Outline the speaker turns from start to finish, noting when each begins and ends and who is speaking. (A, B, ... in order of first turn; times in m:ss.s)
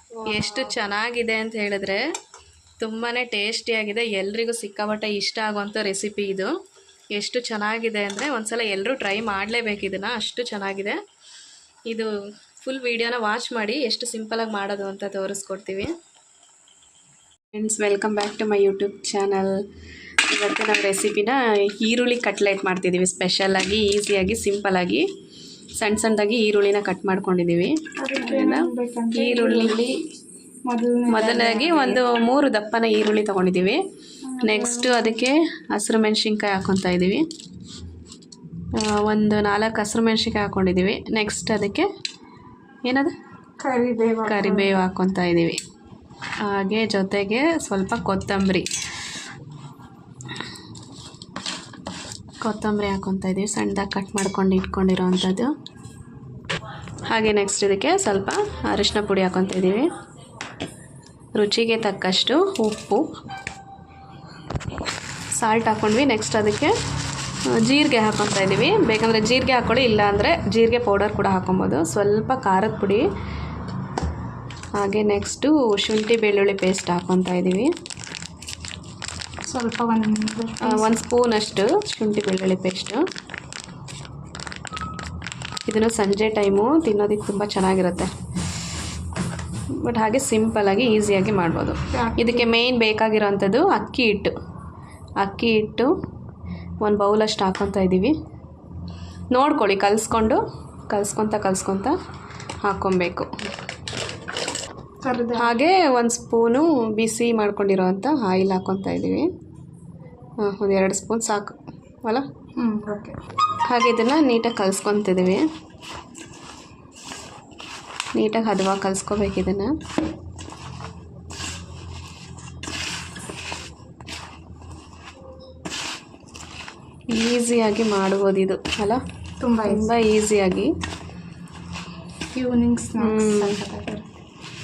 0:00.3-0:02.0 A
0:02.8-0:06.5 A
0:07.1-0:11.0 A
0:12.6-0:15.9 A
0:17.5-0:19.6 A
0:20.3-0:25.0 A
0:25.8-0:29.9 A
0:28.0-0:29.9 B
0:30.7-0:32.0 B
0:31.1-0:33.8 A
0:34.3-0:35.1 B
0:34.4-0:37.2 A
0:38.8-0:41.9 A
0:42.8-0:43.1 A
0:43.6-0:44.8 B
0:44.2-0:45.6 A
0:46.4-0:48.7 A
0:52.4-0:55.5 A
0:57.1-0:59.9 A
1:01.4-1:03.0 A
1:05.4-1:06.7 A
1:07.6-1:13.0 A
1:14.8-1:17.7 A
1:19.5-1:20.9 B
1:20.6-1:23.0 A
1:25.7-1:28.1 A
1:29.8-1:34.3 A
1:31.9-1:32.5 B
1:35.2-1:35.9 A
1:36.8-1:38.1 A
1:39.3-1:41.9 A
1:42.6-1:43.3 A
1:45.0-1:45.5 B
1:45.3-1:49.2 A
1:50.4-1:52.2 A
1:52.6-1:53.2 B
1:53.7-1:55.4 A
1:58.2-1:59.7 A
2:07.1-2:09.0 A
2:09.4-2:09.9 B
2:09.6-2:10.7 A
2:12.3-2:14.1 B
2:13.0-2:13.6 A